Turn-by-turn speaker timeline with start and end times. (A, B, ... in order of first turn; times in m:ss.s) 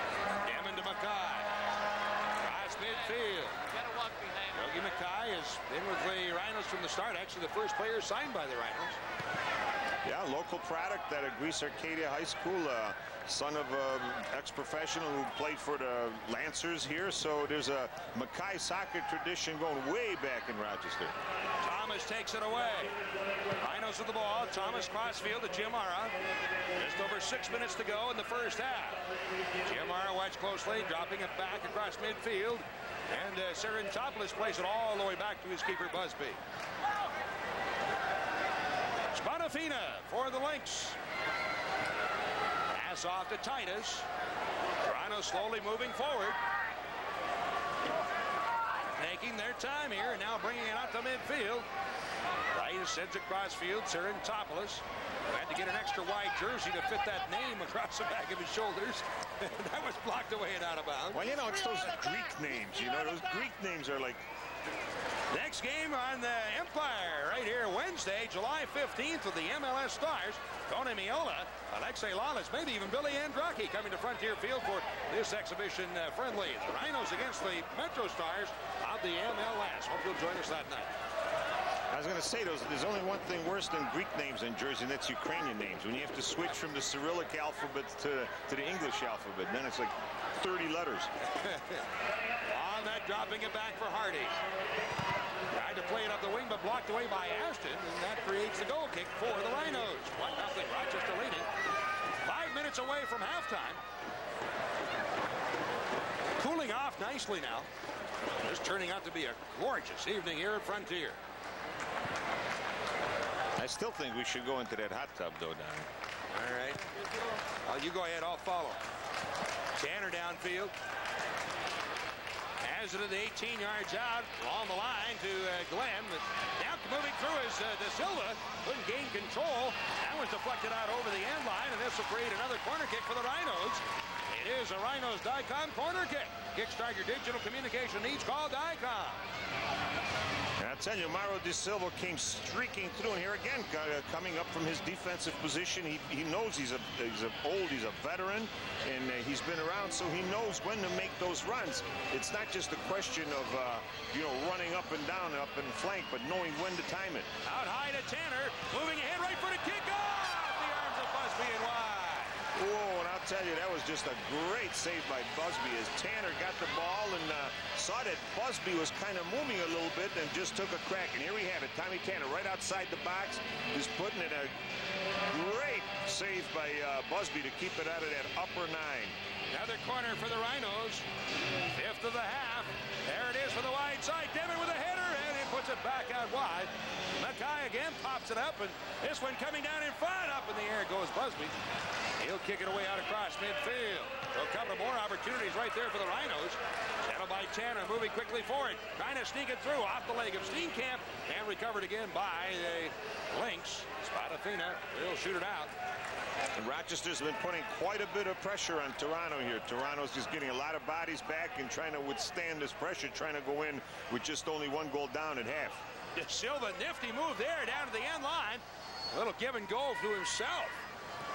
0:00.4-0:01.5 A
0:02.4-0:03.7 A
0:04.3-0:09.0 A
0:10.0-0:21.2 B
0:21.6-0:23.0 A
0:23.6-0:26.1 A
0:26.8-0:29.0 A
0:29.6-0:36.4 A
0:39.1-0:41.0 A
0:42.7-0:44.1 A
0:44.8-0:46.4 A
0:49.0-0:51.7 A
0:52.5-1:01.2 A
1:01.1-1:04.2 B
1:05.3-1:20.9 A
1:21.9-1:31.1 B
1:31.4-1:31.8 A
1:32.5-1:34.4 A
1:35.5-1:41.5 A
1:42.2-1:43.8 A
1:46.4-1:47.7 A
1:48.4-1:51.2 A
1:53.6-1:55.9 B
1:56.3-1:56.8 A
1:57.6-1:58.8 A
1:59.8-2:00.7 A
2:02.6-2:19.2 A
2:20.6-2:37.3 B
2:37.4-2:42.4 A
2:42.6-2:54.5 B
2:55.3-2:59.2 B
2:59.5-3:01.1 A
3:01.7-3:11.6 A
3:12.2-3:25.7 A
3:26.6-3:35.8 B
3:36.2-3:40.8 A